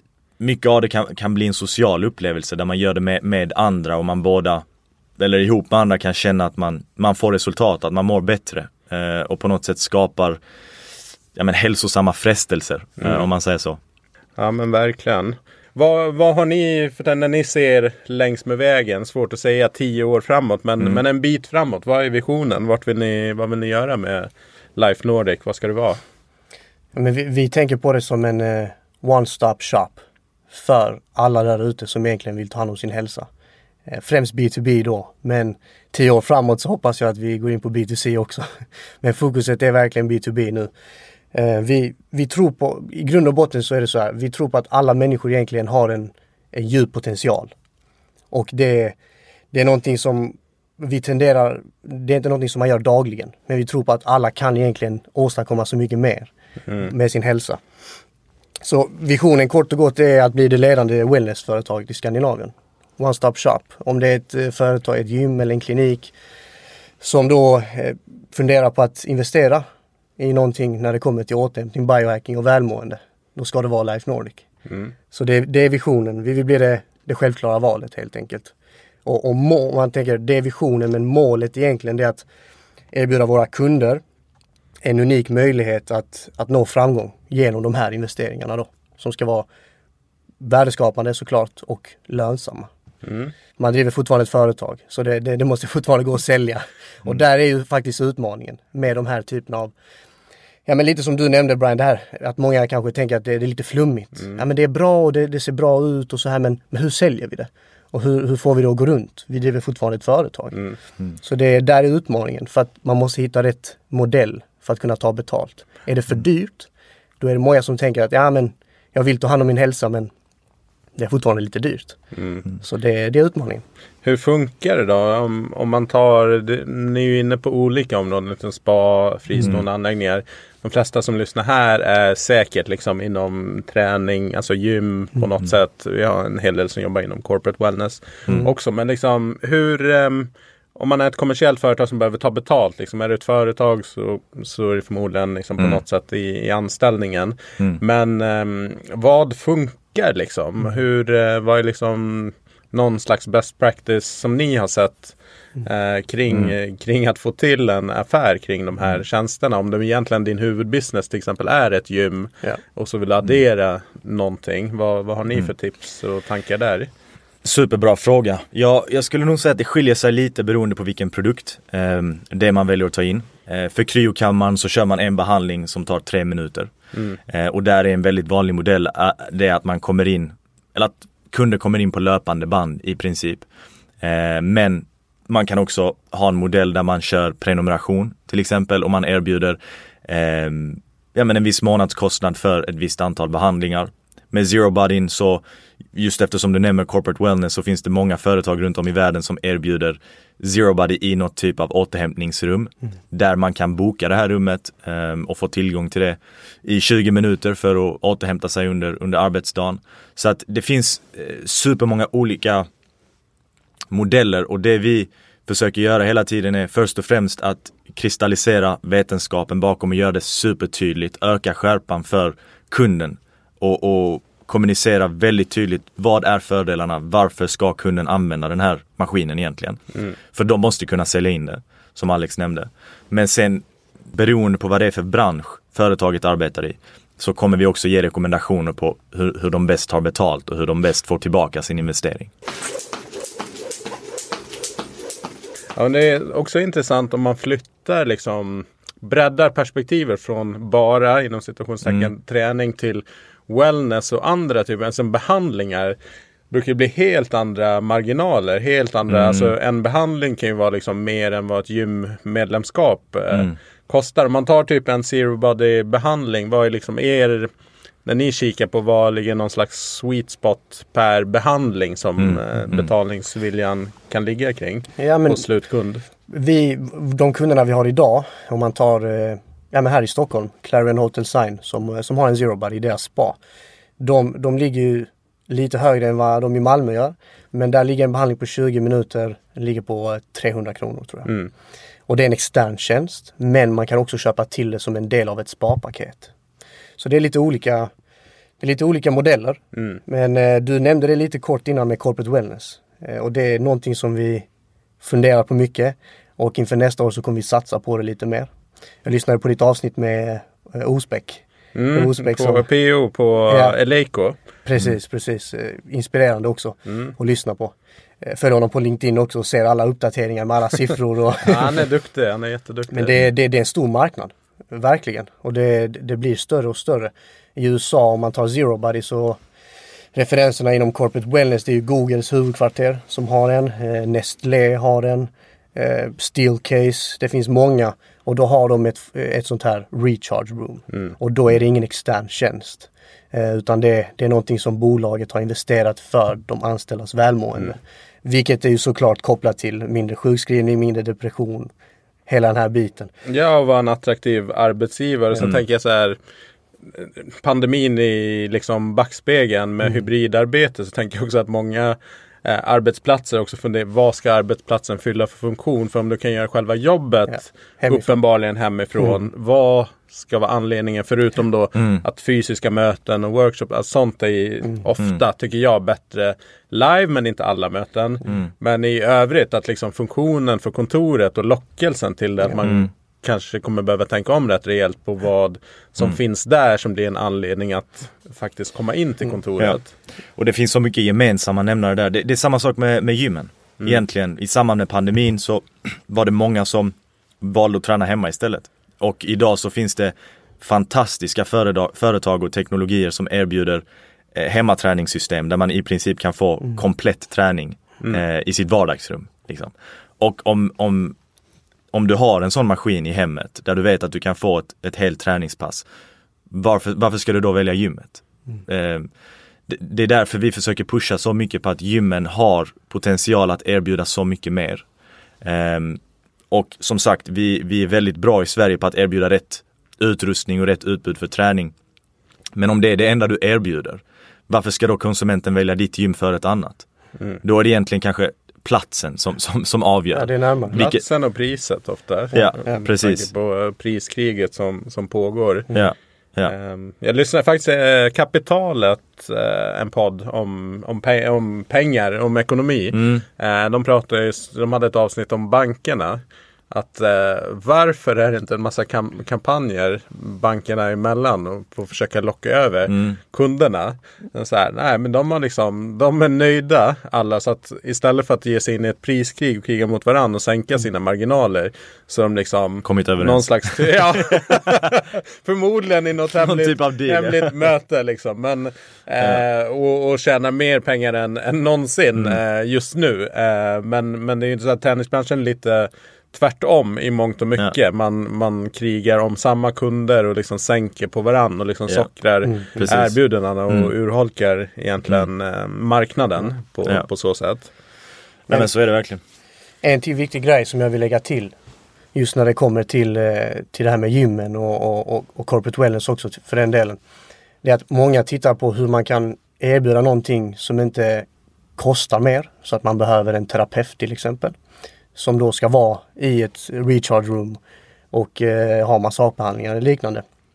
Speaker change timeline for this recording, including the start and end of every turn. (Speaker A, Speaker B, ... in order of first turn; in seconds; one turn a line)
Speaker A: 0.4-4.6
Speaker A: 5.2-10.4
Speaker A: 11.3-13.8
Speaker B: 14.4-26.0
Speaker C: 26.9-33.3
Speaker C: 33.9-38.5
Speaker C: 39.0-40.7
Speaker C: 41.3-47.5
Speaker C: 48.3-48.9
Speaker C: 49.5-57.6
Speaker C: 58.6-66.1
Speaker C: 67.0-69.6
Speaker C: 70.2-74.4
Speaker B: 74.7-74.9
Speaker C: 75.1-78.5
Speaker C: 79.0-82.3
Speaker C: 82.9-84.0
Speaker C: 84.8-89.5
Speaker C: 90.4-92.7
Speaker B: 93.0-93.3
Speaker C: 93.6-99.7
Speaker C: 100.7-110.6
Speaker C: 111.2-116.7
Speaker C: 117.2-120.1
Speaker C: 121.0-122.0
Speaker B: 122.1-122.4
Speaker C: 122.6-123.6
Speaker B: 124.0-166.9
Speaker A: 167.4-176.7
Speaker A: 177.3-183.4
Speaker A: 184.0-195.4
Speaker A: 195.9-212.7
Speaker A: 213.9-229.8
Speaker A: 230.3-242.3
Speaker B: 245.8-255.9
Speaker B: 256.5-267.5
Speaker A: 259.1-259.5
Speaker B: 268.0-276.0
Speaker A: 272.2-272.9
Speaker C: 275.0-275.4
Speaker C: 276.3-283.4
Speaker C: 284.0-291.3
Speaker C: 292.1-296.3
Speaker C: 297.0-297.9
Speaker C: 298.6-304.4
Speaker B: 299.7-300.0
Speaker C: 305.0-308.5
Speaker C: 309.0-311.4
Speaker B: 311.7-314.4
Speaker C: 311.9-312.6
Speaker C: 313.5-313.7
Speaker C: 314.6-321.8
Speaker B: 321.4-323.1
Speaker C: 322.9-329.4
Speaker C: 330.1-351.7
Speaker C: 352.3-353.1
Speaker B: 353.2-356.2
Speaker B: 356.9-389.9
Speaker A: 390.4-411.1
Speaker A: 411.9-415.8
Speaker A: 416.5-419.1
Speaker A: 419.7-424.8
Speaker A: 425.4-426.0
Speaker A: 426.5-431.7
Speaker A: 432.5-436.9
Speaker A: 437.4-441.0
Speaker C: 440.1-440.9
Speaker B: 440.7-445.7
Speaker A: 442.3-443.3
Speaker C: 442.3-442.8
Speaker A: 445.7-446.5
Speaker B: 446.4-497.7
Speaker A: 452.9-453.2
Speaker A: 462.9-463.2
Speaker A: 472.8-473.5
Speaker A: 476.4-477.5
Speaker C: 492.4-492.8
Speaker A: 492.8-493.1
Speaker A: 498.5-499.2
Speaker C: 499.8-501.5
Speaker C: 502.1-507.0
Speaker C: 507.6-514.5
Speaker C: 515.1-517.6
Speaker C: 518.1-520.2